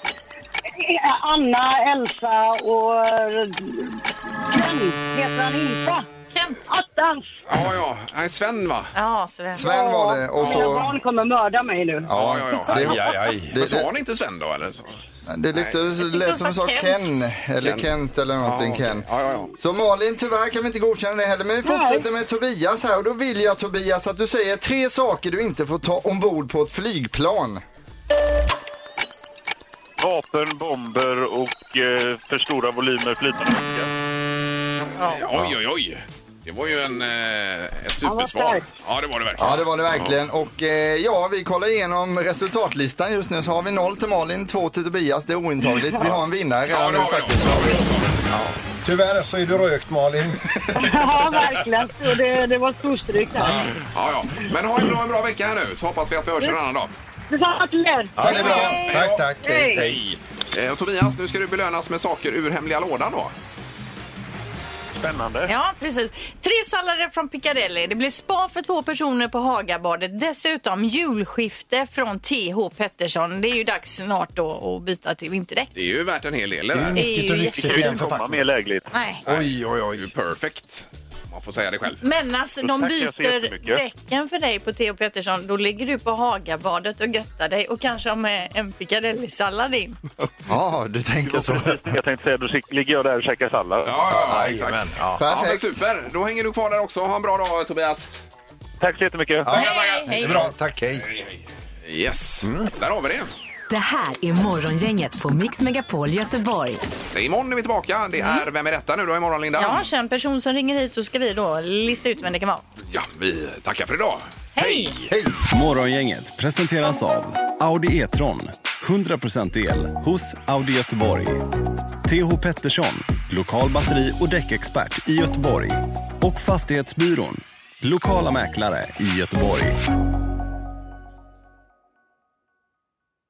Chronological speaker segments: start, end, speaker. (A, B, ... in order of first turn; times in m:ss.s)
0:00.8-0:06.0 A
0:06.3-0:06.6 B
0:06.7-0:07.4 A
0:07.5-0:08.9 C
0:08.9-0:09.6 B
0:09.5-0:10.9 D
0:09.6-0:13.1 A
0:12.1-0:15.0 C
0:12.1-0:13.3 E
0:12.7-0:13.9 D
0:15.3-0:19.0 D
0:16.0-0:17.2 B
0:17.6-0:17.9 C
0:18.4-0:19.5 C
0:19.6-0:27.6 D
0:21.6-0:22.1 A
0:30.0-0:33.9 F
0:35.0-0:40.1 C
0:38.0-0:38.7 A
0:39.4-0:47.8 D
0:46.7-0:48.2 C
0:48.3-0:50.5 E
0:50.7-0:53.6 A
0:53.4-0:53.7 E
0:53.9-0:56.9 C
0:57.3-0:58.5 A
0:58.2-1:00.0 E
0:58.2-0:58.9 B
0:58.4-1:03.3 C
0:59.4-0:59.9 A
1:05.0-1:05.5 F
1:05.4-1:15.7 B
1:15.7-1:17.0 C
1:16.7-1:18.3 E
1:17.0-1:17.7 B
1:17.6-1:18.9 F
1:18.9-1:19.2 B
1:19.2-1:20.1 E
1:19.2-1:22.0 C
1:22.0-1:30.0 B
1:22.6-1:23.8 F
1:30.5-1:31.9 D
1:31.2-1:34.0 F
1:33.8-1:38.1 C
1:34.1-1:35.2 E
1:35.2-1:35.8 D
1:38.8-1:39.5 F
1:39.4-1:41.1 E
1:39.5-1:40.4 B
1:39.5-1:40.5 C
1:41.1-1:43.3 C
1:42.4-1:42.7 E
1:43.7-1:46.8 G
1:47.1-1:49.8 C
1:49.6-1:52.6 B
1:52.9-1:55.1 C
1:54.6-1:54.9 B
1:55.1-1:55.4 E
1:55.5-2:01.5 H
2:02.0-2:09.8 H